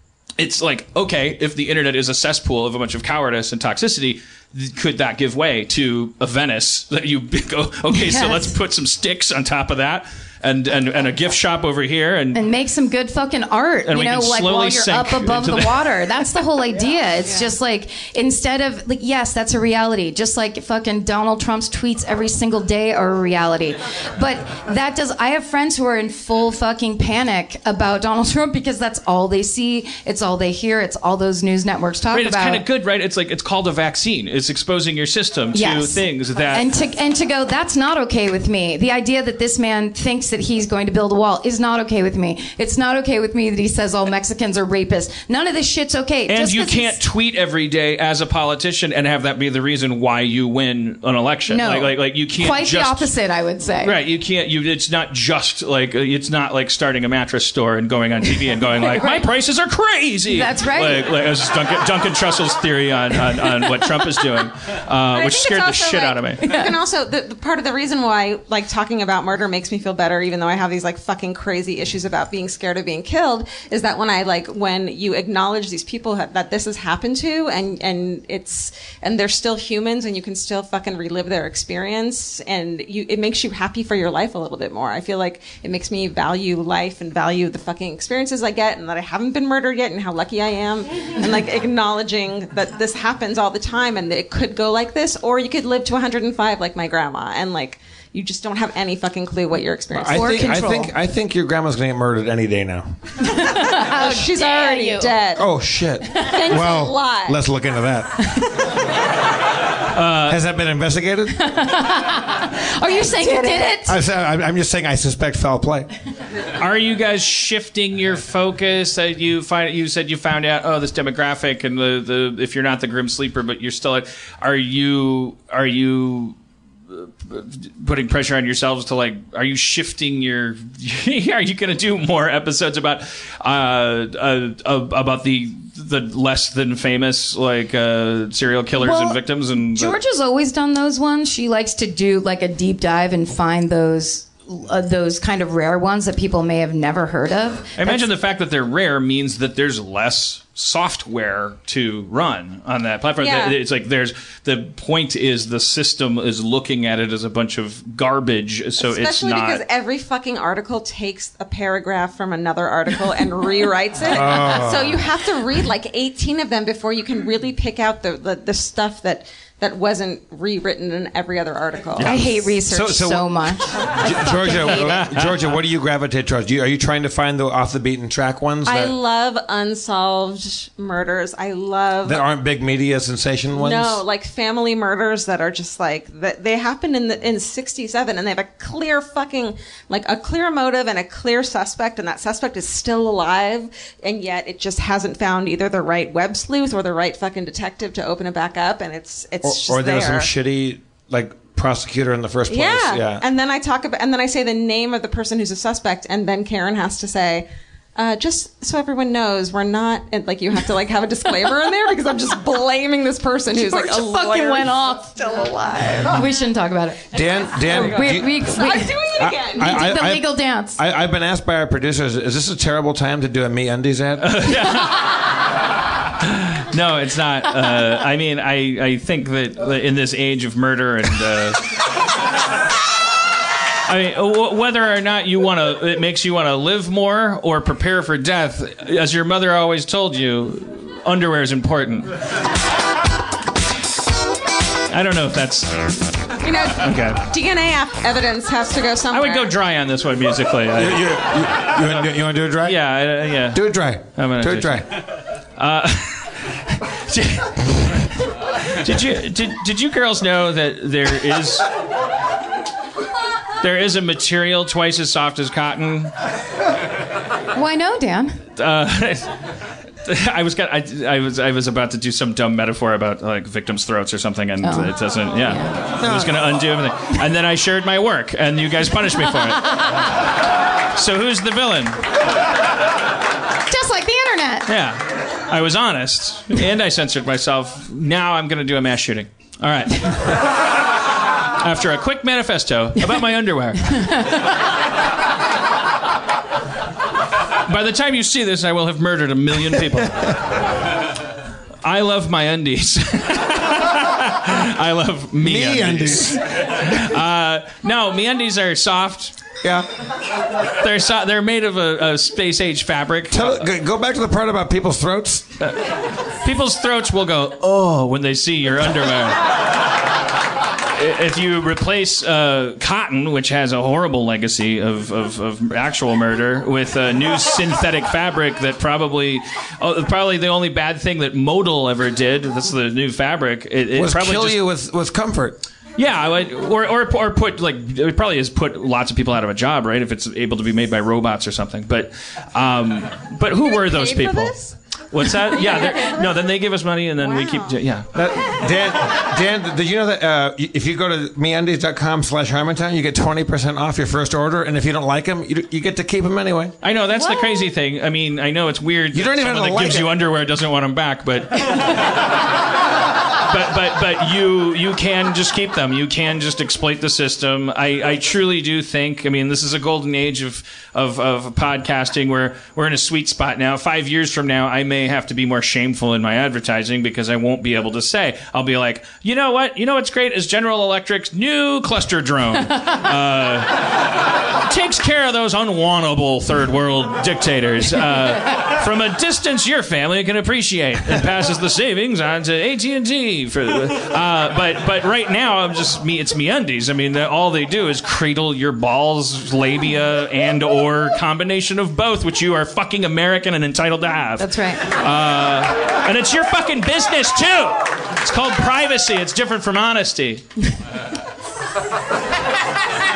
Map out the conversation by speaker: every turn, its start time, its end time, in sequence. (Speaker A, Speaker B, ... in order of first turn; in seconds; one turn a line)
Speaker A: 0.4-12.4
Speaker B: 7.9-8.5
Speaker B: 12.3-32.6
Speaker A: 13.8-15.8
Speaker A: 32.1-36.7
Speaker B: 35.5-47.0
Speaker A: 46.3-53.1
Speaker B: 51.5-54.0
Speaker A: 53.8-66.4
Speaker B: 58.8-59.2
Speaker B: 60.3-61.1
Speaker C: 65.1-100.6
Speaker B: 66.4-66.8
Speaker D: 99.9-103.0
Speaker B: 100.1-100.9
Speaker B: 103.2-105.2
Speaker C: 104.0-105.5
Speaker D: 105.3-108.3
Speaker B: 106.0-106.4
Speaker C: 106.2-107.4
Speaker A: 109.9-110.4
Speaker D: 110.3-111.4
Speaker B: 111.3-114.0
Speaker C: 113.3-113.6
Speaker D: 113.9-115.9
Speaker A: 116.5-126.4
Speaker A: 126.9-140.0
Speaker B: 138.8-148.1
Speaker A: 147.8-159.6
Speaker C: 153.2-153.6
Speaker C: 158.8-172.6
Speaker D: 164.1-165.1
Speaker B: 172.0-175.1
Speaker D: 172.7-173.3
Speaker D: 174.0-178.9
Speaker A: 174.8-175.3
Speaker C: 178.6-182.2
Speaker D: 182.0-184.0
Speaker C: 183.5-200.3
Speaker D: 199.4-203.2
Speaker C: 202.5-215.4
Speaker B: 213.5-220.8
Speaker D: 217.1-218.4
Speaker C: 217.7-219.8
Speaker D: 219.1-224.5
Speaker A: 224.2-225.2
Speaker A: 226.2-231.7
Speaker A: 233.8-242.1
Speaker A: 244.9-246.0
Speaker C: 246.4-249.5
Speaker A: 246.8-247.2
Speaker A: 249.1-251.1
Speaker D: 250.8-252.8
Speaker A: 252.6-253.6
Speaker D: 253.5-254.8
Speaker A: 254.1-255.0
Speaker A: 255.6-261.7
Speaker A: 263.6-266.1
Speaker B: 267.5-268.4
Speaker A: 268.6-269.4
Speaker A: 270.0-279.7
Speaker B: 274.6-275.7
Speaker D: 276.0-276.5
Speaker A: 280.9-282.0
Speaker B: 283.7-284.7
Speaker A: 284.6-290.5
Speaker A: 291.6-294.1
Speaker B: 294.0-294.4
Speaker A: 297.6-300.3
Speaker A: 301.8-309.3
Speaker D: 305.4-306.4
Speaker D: 309.6-309.9
Speaker A: 310.7-313.6
Speaker D: 313.3-315.5
Speaker A: 315.6-319.5
Speaker A: 320.9-334.6
Speaker D: 333.9-335.6
Speaker A: 336.0-348.1
Speaker C: 343.7-344.7
Speaker C: 347.2-347.8
Speaker D: 348.1-356.7
Speaker A: 356.8-361.8
Speaker C: 357.1-357.6
Speaker D: 359.1-360.1
Speaker A: 363.4-383.8
Speaker A: 384.6-410.5
Speaker B: 404.4-404.8